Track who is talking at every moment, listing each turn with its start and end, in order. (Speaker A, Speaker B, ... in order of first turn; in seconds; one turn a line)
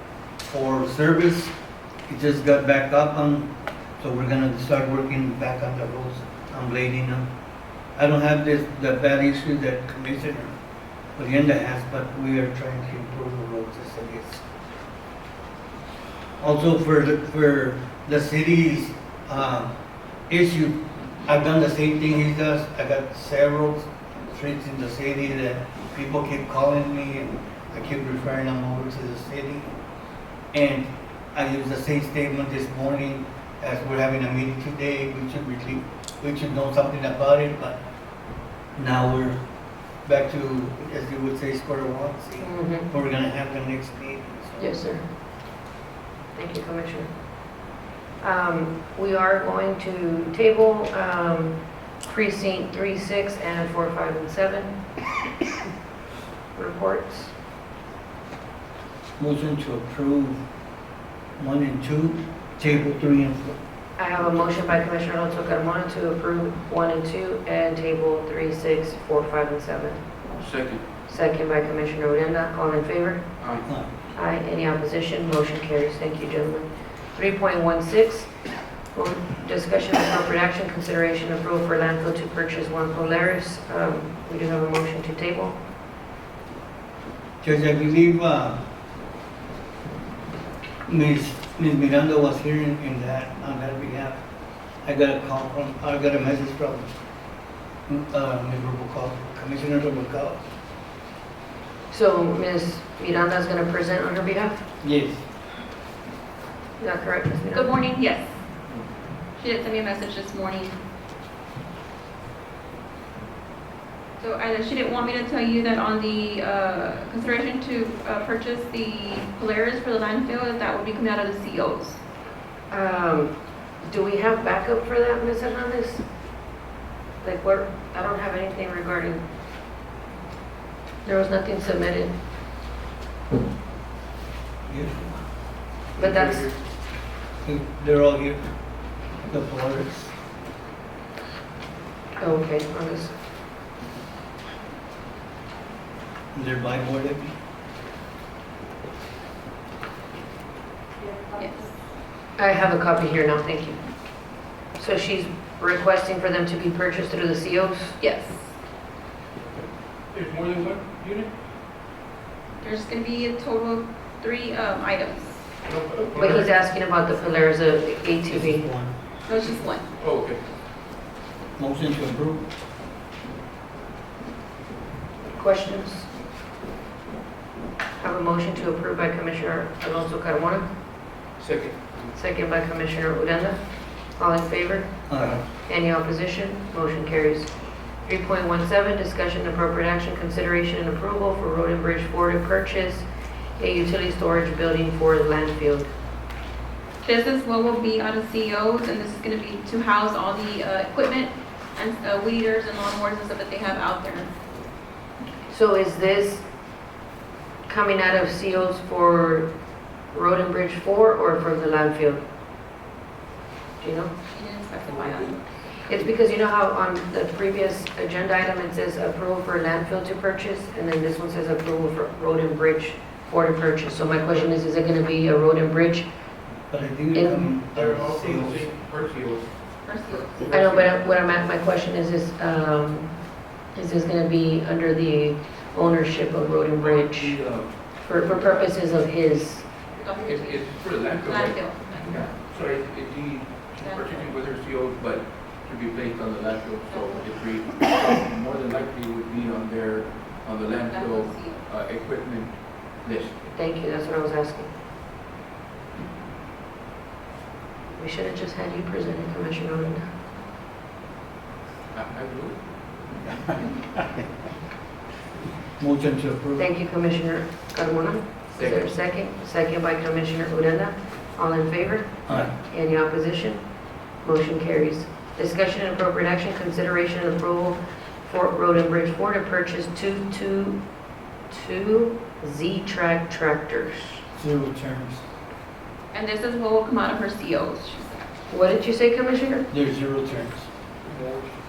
Speaker A: 0.4-1.5
Speaker A: 2.1-7.3
Speaker A: 7.9-10.6
Speaker A: 11.2-14.4
Speaker A: 16.4-19.7
Speaker A: 20.3-29.7
Speaker A: 30.5-37.8
Speaker A: 38.8-39.4
Speaker A: 40.0-44.7
Speaker B: 42.4-42.9
Speaker B: 44.6-45.0
Speaker B: 46.3-47.1
Speaker B: 48.2-54.7
Speaker B: 56.5-57.3
Speaker A: 59.2-60.4
Speaker A: 61.4-63.5
Speaker B: 64.0-70.0
Speaker C: 70.3-70.8
Speaker B: 71.1-73.2
Speaker C: 73.4-73.7
Speaker A: 73.6-73.9
Speaker B: 74.1-78.3
Speaker B: 78.9-85.6
Speaker A: 87.4-88.6
Speaker A: 90.8-94.2
Speaker A: 94.8-96.9
Speaker A: 97.9-100.4
Speaker B: 101.9-104.6
Speaker A: 104.8-105.2
Speaker B: 106.8-107.7
Speaker D: 107.5-108.3
Speaker D: 109.3-110.8
Speaker D: 114.2-122.0
Speaker B: 122.7-126.0
Speaker B: 127.2-129.2
Speaker B: 131.0-132.1
Speaker A: 134.7-135.2
Speaker C: 135.9-136.6
Speaker B: 136.0-136.5
Speaker A: 137.4-138.4
Speaker A: 139.3-140.1
Speaker B: 142.2-143.1
Speaker A: 146.3-147.3
Speaker D: 151.3-151.7
Speaker B: 152.4-153.8
Speaker B: 154.8-158.0
Speaker D: 158.0-158.5
Speaker C: 160.1-161.3
Speaker D: 162.6-165.4
Speaker C: 165.7-166.5
Speaker B: 166.1-168.7
Speaker A: 168.3-168.9
Speaker D: 169.2-169.8
Speaker C: 170.0-170.4
Speaker A: 171.6-172.4
Speaker B: 175.3-176.1
Speaker B: 178.0-180.6
Speaker C: 181.4-182.0
Speaker B: 182.1-183.6
Speaker B: 184.2-187.5
Speaker A: 185.1-185.4
Speaker B: 188.0-193.0
Speaker B: 193.6-195.9
Speaker D: 197.0-204.3
Speaker B: 205.5-206.4
Speaker B: 207.7-209.5
Speaker B: 210.1-212.2
Speaker B: 213.8-214.1
Speaker D: 214.3-215.4
Speaker C: 214.8-215.3
Speaker B: 215.9-226.1
Speaker A: 226.7-228.6
Speaker B: 227.1-227.5
Speaker C: 227.7-230.9
Speaker D: 229.8-230.5
Speaker B: 230.5-233.1
Speaker B: 233.7-237.4
Speaker C: 236.8-237.8
Speaker B: 238.0-239.7
Speaker D: 239.9-242.3
Speaker C: 240.2-253.5
Speaker D: 243.8-244.4
Speaker D: 246.9-247.2
Speaker D: 250.8-251.6
Speaker B: 253.6-254.7
Speaker B: 257.9-260.1
Speaker C: 261.9-262.6
Speaker A: 265.8-266.7
Speaker B: 266.6-273.6
Speaker C: 268.6-268.9
Speaker A: 272.3-272.5
Speaker B: 274.2-280.8
Speaker B: 281.5-284.2
Speaker A: 284.3-285.2
Speaker D: 286.1-288.3
Speaker B: 288.5-289.7
Speaker A: 289.7-290.7
Speaker C: 291.0-291.6